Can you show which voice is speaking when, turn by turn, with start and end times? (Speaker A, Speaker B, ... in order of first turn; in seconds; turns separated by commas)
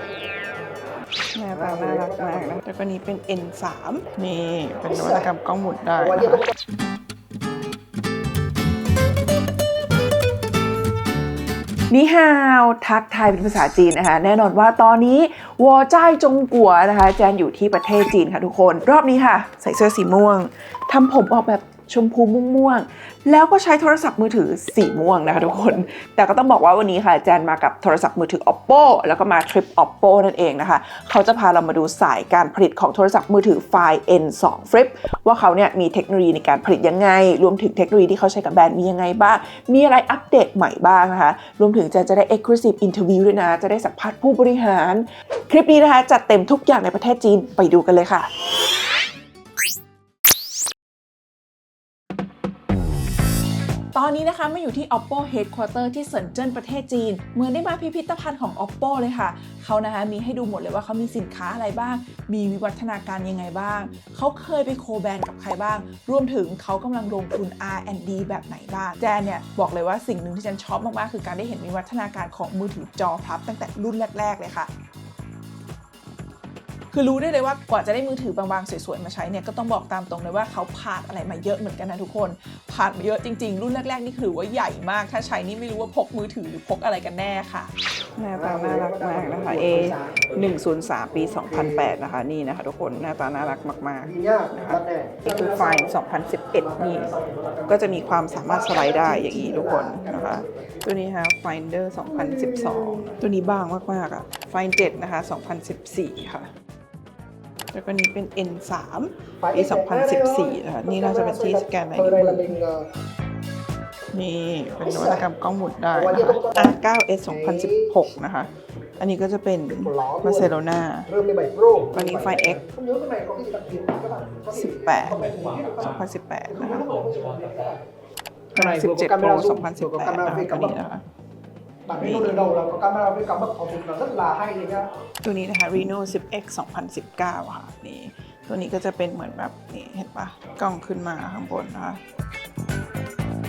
Speaker A: 1.3-6.4, Speaker B: 1.5-2.6, Speaker B: 6.2-6.5, Speaker A: 11.9-48.3, Speaker A: 53.9-74.7, Speaker A: 76.9-97.1, Speaker B: 88.3-90.3, Speaker B: 91.4-91.9, Speaker B: 94.0-95.9, Speaker B: 96.8-97.7, Speaker A: 97.7-106.5, Speaker B: 98.3-100.7, Speaker B: 102.1-103.1, Speaker A: 107.7-112.5, Speaker B: 109.4-112.9, Speaker A: 114.1-121.1, Speaker B: 114.8-115.2, Speaker B: 115.9-118.0, Speaker B: 119.7-120.6, Speaker B: 121.1-126.0, Speaker A: 121.9-122.6, Speaker A: 124.5-126.9, Speaker B: 126.5-127.8, Speaker A: 128.5-131.0, Speaker B: 128.6-130.8, Speaker B: 131.9-134.9, Speaker A: 132.0-132.5, Speaker A: 135.2-142.0